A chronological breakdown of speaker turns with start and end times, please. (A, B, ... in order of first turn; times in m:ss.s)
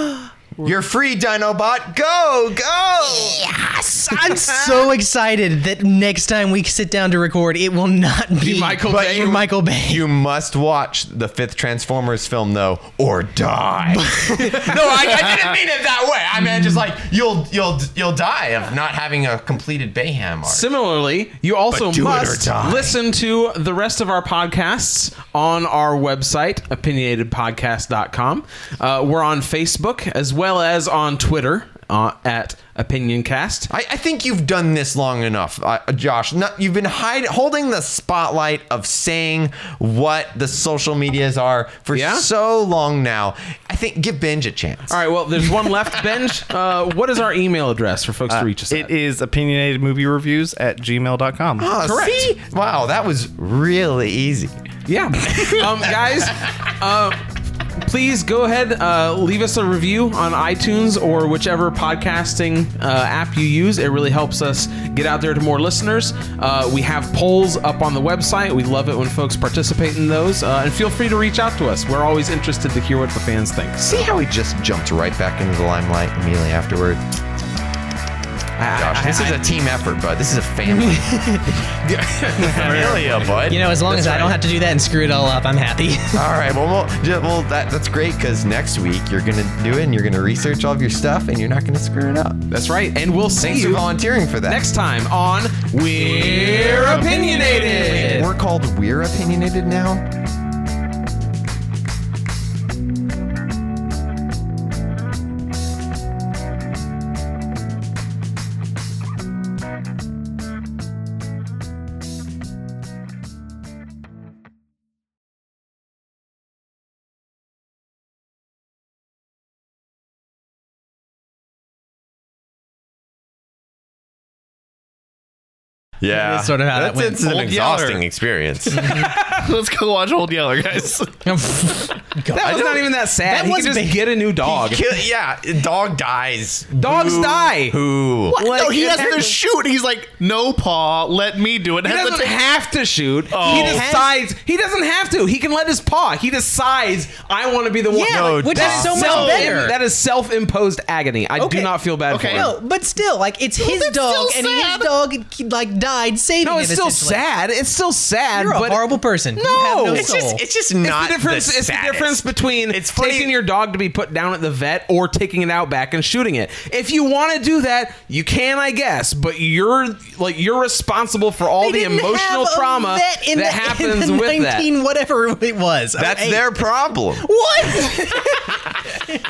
0:00.6-0:04.4 A
0:04.1-0:10.0 B
0:08.4-0:09.4 C
0:08.8-0:20.6 A
0:20.5-0:33.7 C
0:21.7-0:23.0 A
0:33.7-0:45.9 A
0:41.9-0:42.2 C
0:44.9-0:48.9 C
0:48.3-0:51.7 D
0:51.6-0:54.6 A
0:51.8-0:52.3 C
0:54.9-0:57.2 C
0:55.3-0:55.6 A
0:57.8-1:14.1 C
1:13.8-1:17.1 A
1:18.6-1:19.4 C
1:18.6-1:21.4 A
1:20.7-1:21.5 B
1:21.8-1:24.2 C
1:22.4-1:24.4 A
1:23.5-1:26.2 B
1:26.1-1:32.5 A
1:32.5-1:33.9 C
1:33.4-1:34.6 A
1:34.4-1:38.3 C
1:36.0-1:40.1 A
1:37.0-1:38.1 B
2:06.0-2:09.0 A
2:06.1-2:07.2 B
2:07.3-2:08.0 E
2:08.8-2:09.5 D
2:09.1-2:11.0 E
2:10.6-2:11.1 D
2:11.2-2:14.6 B
2:12.3-2:14.8 C
2:14.5-2:18.4 A
2:16.8-2:17.8 C
2:18.3-2:22.4 E
2:18.4-2:19.3 C
2:21.8-2:32.5 C
2:23.3-2:23.8 D
2:23.4-2:24.1 B
2:27.9-2:29.8 B
2:28.1-2:29.6 A
2:29.0-2:29.6 E
2:31.4-2:31.7 B
2:32.1-2:32.5 E
2:32.2-2:37.2 B
2:33.6-2:34.9 E
2:36.4-2:38.8 C
2:38.4-2:40.4 B
2:39.4-2:40.2 C
2:39.9-2:43.3 A
2:40.8-2:54.7 C
2:51.6-2:56.6 B
2:56.0-2:57.3 A
2:57.2-2:58.6 B
2:58.4-2:59.0 A